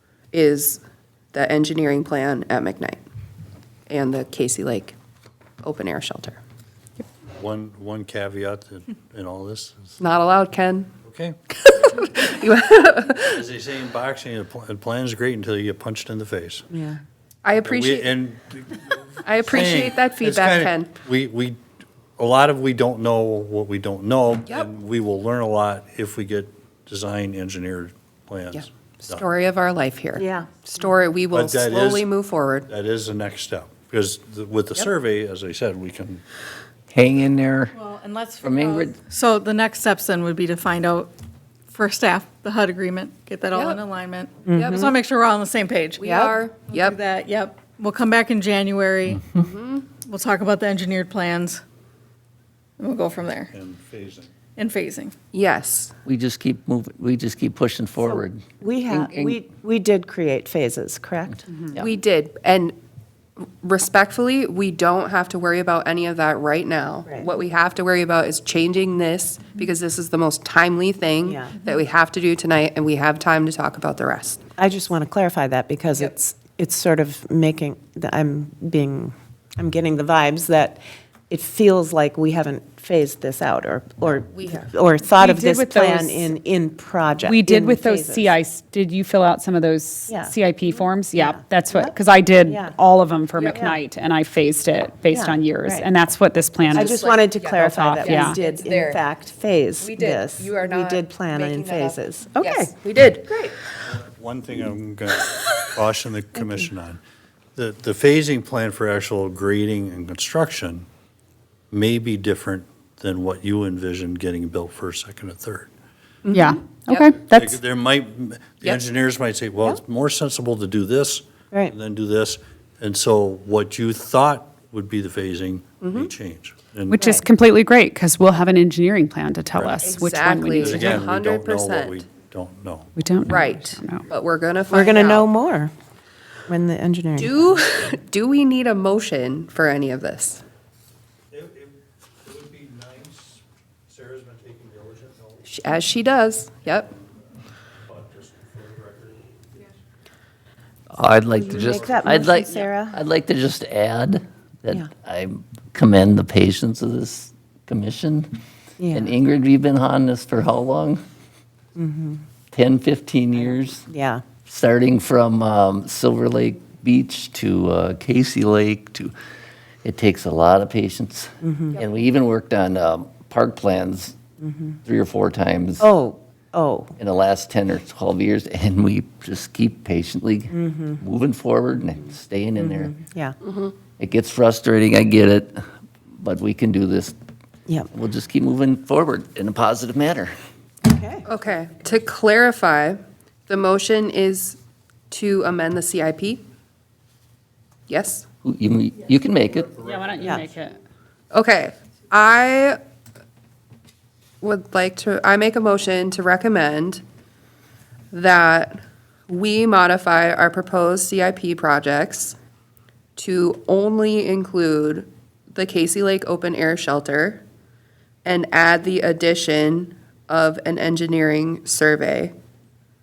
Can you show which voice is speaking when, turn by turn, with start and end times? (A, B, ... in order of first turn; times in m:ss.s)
0:00.3-0:00.8 A
0:01.3-0:03.0 A
0:03.9-0:05.0 A
0:05.6-0:06.4 A
0:07.4-0:10.0 B
0:10.0-0:10.9 A
0:11.0-0:11.4 B
0:11.7-0:13.4 A
0:13.3-0:16.7 B
0:16.7-0:17.0 C
0:17.4-0:18.1 A
0:17.6-0:21.6 B
0:19.2-0:20.9 A
0:22.2-0:29.2 B
0:28.5-0:32.7 A
0:30.2-0:30.5 C
0:31.3-0:32.1 B
0:32.7-0:36.2 B
0:36.9-0:37.7 D
0:37.7-0:41.1 E
0:38.4-0:39.0 D
0:41.7-0:49.2 E
0:43.5-0:43.8 A
0:44.5-0:44.9 C
0:44.5-0:44.9 A
0:46.0-0:47.0 A
0:49.3-0:49.9 A
0:50.1-0:51.6 E
0:52.8-0:53.5 E
0:53.5-0:54.3 B
0:54.6-0:55.1 E
0:55.3-0:56.0 A
0:56.1-0:59.4 D
0:58.0-1:01.5 C
1:01.8-1:02.8 A
1:03.6-1:14.4 A
1:11.2-1:11.5 C
1:14.6-1:28.4 C
1:24.3-1:24.7 A
1:25.2-1:26.3 F
1:27.2-1:37.0 F
1:30.1-1:30.3 C
1:31.2-1:32.8 C
1:33.4-1:33.7 A
1:35.1-1:35.9 C
1:36.7-1:39.0 A
1:36.8-1:42.7 C
1:37.7-1:38.4 F
1:39.8-1:43.4 A
1:43.2-1:43.6 C
1:43.9-1:47.0 B
1:47.6-1:50.9 B
1:51.7-1:55.7 B
1:56.2-1:57.1 A
1:56.3-1:57.6 F
1:57.1-2:07.2 B
2:05.8-2:06.1 A
2:06.9-2:11.1 F
2:07.0-2:07.2 C
2:09.5-2:09.9 B
2:09.8-2:12.0 A
2:10.5-2:12.9 B
2:13.0-2:14.0 F
2:13.3-2:15.3 A
2:14.7-2:15.7 C
2:16.5-2:17.5 C
2:17.2-2:20.4 A
2:21.3-2:25.5 B
2:25.4-2:26.9 A
2:27.9-2:29.2 B
2:30.9-2:38.3 D
2:31.5-2:33.0 C
2:31.6-2:32.0 B
2:38.8-2:39.2 C
2:38.9-2:41.0 D
2:41.8-2:42.2 C
2:42.5-2:43.9 D
2:43.9-2:44.2 C
2:44.4-2:49.1 D
2:49.8-2:54.2 D
2:51.4-2:51.8 C
2:54.4-2:54.7 C
2:54.8-2:55.9 D
2:55.8-2:56.9 C
2:57.0-3:02.9 D
3:00.5-3:01.0 C
3:02.6-3:03.4 C
3:03.4-3:03.7 A
3:04.0-3:05.6 D
3:06.2-3:07.2 D
3:07.9-3:10.3 D
3:10.8-3:11.3 C
3:11.3-3:14.6 A
3:15.1-3:16.4 A
3:17.9-3:18.2 A
3:18.4-3:19.8 D
3:19.7-3:20.8 F
3:20.0-3:20.5 B
3:21.3-3:22.8 A
3:24.4-3:27.0 A
3:28.1-3:32.4 A
3:33.2-3:37.4 A
3:38.2-3:42.3 A